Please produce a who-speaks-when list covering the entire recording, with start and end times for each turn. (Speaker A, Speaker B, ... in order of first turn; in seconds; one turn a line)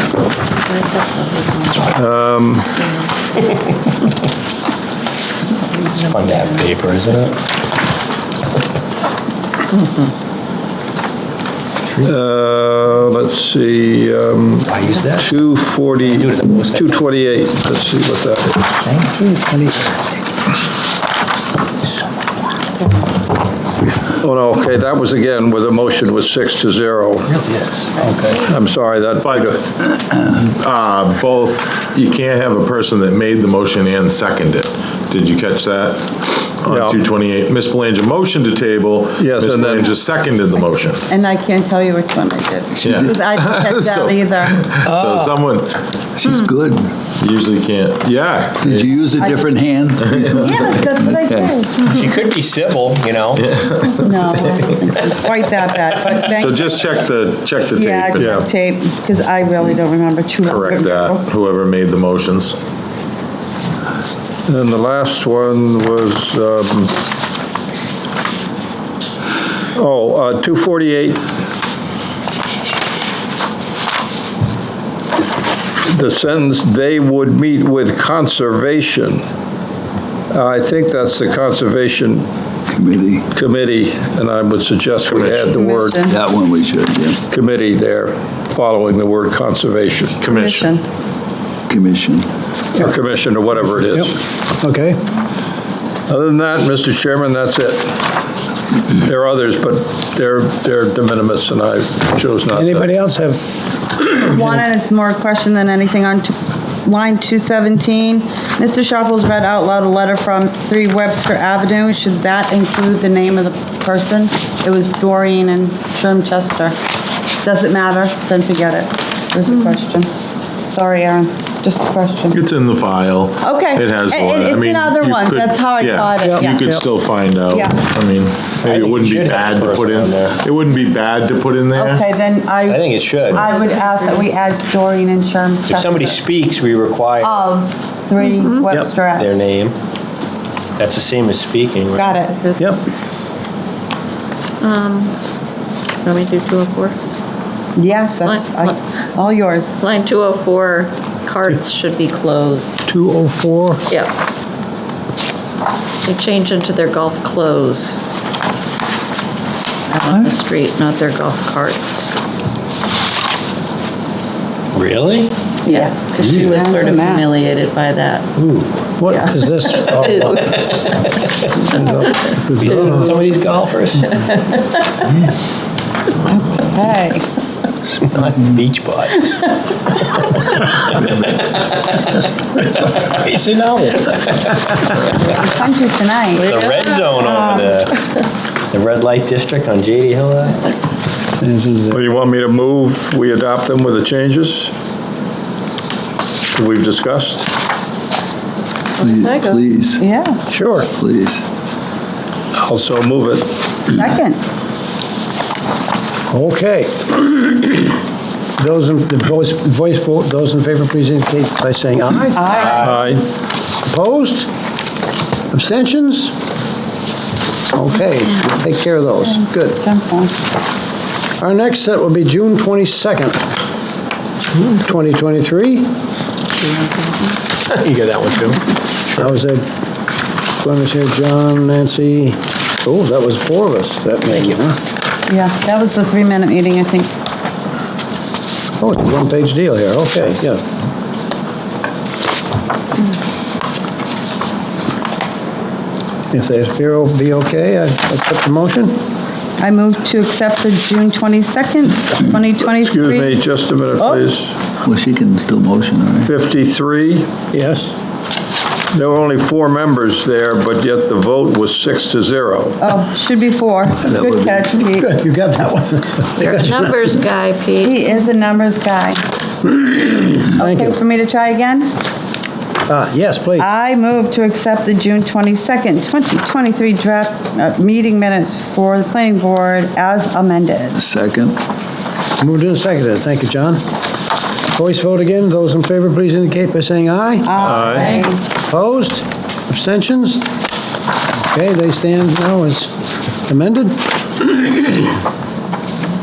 Speaker A: 0.5-1.7
Speaker B: 1.9-2.7
Speaker C: 5.9-7.4
Speaker B: 12.0-18.6
Speaker C: 14.7-15.3
Speaker C: 16.0-17.1
Speaker C: 18.8-19.1
Speaker D: 19.1-20.0
Speaker B: 24.2-27.3
Speaker C: 27.3-28.4
Speaker B: 28.4-29.6
Speaker E: 29.2-29.6
Speaker E: 30.4-41.0
Speaker B: 36.7-37.0
Speaker B: 39.2-39.9
Speaker F: 41.1-44.6
Speaker E: 42.8-45.8
Speaker G: 42.8-43.1
Speaker G: 44.9-45.3
Speaker G: 46.2-46.9
Speaker E: 47.2-48.9
Speaker G: 48.6-51.6
Speaker F: 49.2-49.5
Speaker E: 50.0-50.5
Speaker F: 50.4-52.0
Speaker C: 51.8-53.4
Speaker E: 53.3-54.1
Speaker F: 53.8-56.6
Speaker E: 56.3-58.4
Speaker F: 57.7-61.2
Speaker B: 58.2-58.4
Speaker E: 60.4-62.6
Speaker B: 64.5-66.9
Speaker B: 69.7-71.2
Speaker B: 75.8-79.3
Speaker B: 80.3-82.3
Speaker G: 82.7-83.2
Speaker B: 83.3-86.0
Speaker E: 85.1-85.6
Speaker F: 85.5-86.2
Speaker G: 86.1-87.2
Speaker B: 87.3-90.2
Speaker E: 90.2-90.7
Speaker F: 90.3-90.8
Speaker G: 91.7-92.3
Speaker B: 92.8-94.1
Speaker D: 93.8-95.0
Speaker B: 96.1-98.0
Speaker B: 99.0-102.9
Speaker D: 102.5-103.4
Speaker D: 103.9-104.6
Speaker F: 104.2-116.8
Speaker F: 117.4-120.1
Speaker A: 119.5-119.8
Speaker F: 120.7-122.4
Speaker E: 122.3-132.0
Speaker F: 123.4-126.7
Speaker D: 126.2-126.8
Speaker F: 127.5-127.8
Speaker C: 128.6-130.4
Speaker F: 131.7-136.2
Speaker C: 132.7-133.4
Speaker A: 133.4-134.3
Speaker C: 135.7-137.5
Speaker F: 137.2-139.3
Speaker A: 138.2-138.7
Speaker C: 139.1-139.7
Speaker C: 140.8-142.2
Speaker F: 141.9-142.4
Speaker A: 142.3-142.7
Speaker A: 144.6-145.2
Speaker A: 146.0-146.9
Speaker F: 147.8-149.7
Speaker A: 148.2-148.8
Speaker A: 149.8-152.8
Speaker D: 152.8-153.8
Speaker A: 156.0-158.0
Speaker A: 159.9-162.1
Speaker C: 164.7-165.3
Speaker A: 165.7-168.3
Speaker F: 165.7-167.3
Speaker C: 166.2-166.6
Speaker D: 168.4-170.5
Speaker A: 169.1-170.7
Speaker C: 170.5-171.6
Speaker D: 171.7-173.2
Speaker C: 172.6-174.2
Speaker F: 176.3-177.2
Speaker C: 177.9-179.3
Speaker C: 180.1-184.8
Speaker F: 185.1-187.9
Speaker A: 186.3-187.2
Speaker C: 186.4-187.9
Speaker C: 188.7-190.7
Speaker D: 191.4-192.0
Speaker B: 191.9-194.7
Speaker B: 196.5-197.5
Speaker A: 199.0-199.6
Speaker G: 199.0-200.1
Speaker F: 200.0-200.4
Speaker D: 200.5-200.9
Speaker G: 200.9-201.4
Speaker B: 202.5-203.5
Speaker F: 203.9-204.4
Speaker D: 206.3-207.9
Speaker D: 208.6-212.4
Speaker F: 212.3-213.0
Speaker C: 212.5-213.1
Speaker B: 212.8-213.2
Speaker D: 213.8-214.5
Speaker D: 215.5-216.3
Speaker D: 217.7-219.8
Speaker F: 219.2-220.3
Speaker D: 221.4-223.4
Speaker C: 224.6-224.8
Speaker D: 224.8-225.9
Speaker A: 226.6-227.2
Speaker C: 227.7-228.6
Speaker D: 229.1-229.7
Speaker D: 230.6-234.8
Speaker F: 235.3-237.1
Speaker D: 238.8-240.6
Speaker D: 246.3-249.0
Speaker F: 249.6-253.3
Speaker B: 252.7-254.5
Speaker G: 254.8-256.3
Speaker B: 256.2-257.3
Speaker D: 257.5-257.9
Speaker B: 258.9-262.9
Speaker F: 262.8-265.1
Speaker G: 264.1-264.7
Speaker D: 265.0-266.9
Speaker A: 266.4-268.2
Speaker F: 267.8-269.2
Speaker D: 269.8-271.0
Speaker F: 270.6-271.9
Speaker D: 272.9-273.7
Speaker F: 273.6-281.0
Speaker G: 280.9-281.6
Speaker D: 282.4-283.8
Speaker D: 284.7-287.6
Speaker F: 287.4-288.4
Speaker B: 287.6-288.1
Speaker A: 287.9-288.3
Speaker D: 288.7-290.5
Speaker D: 291.3-292.9
Speaker D: 293.5-295.1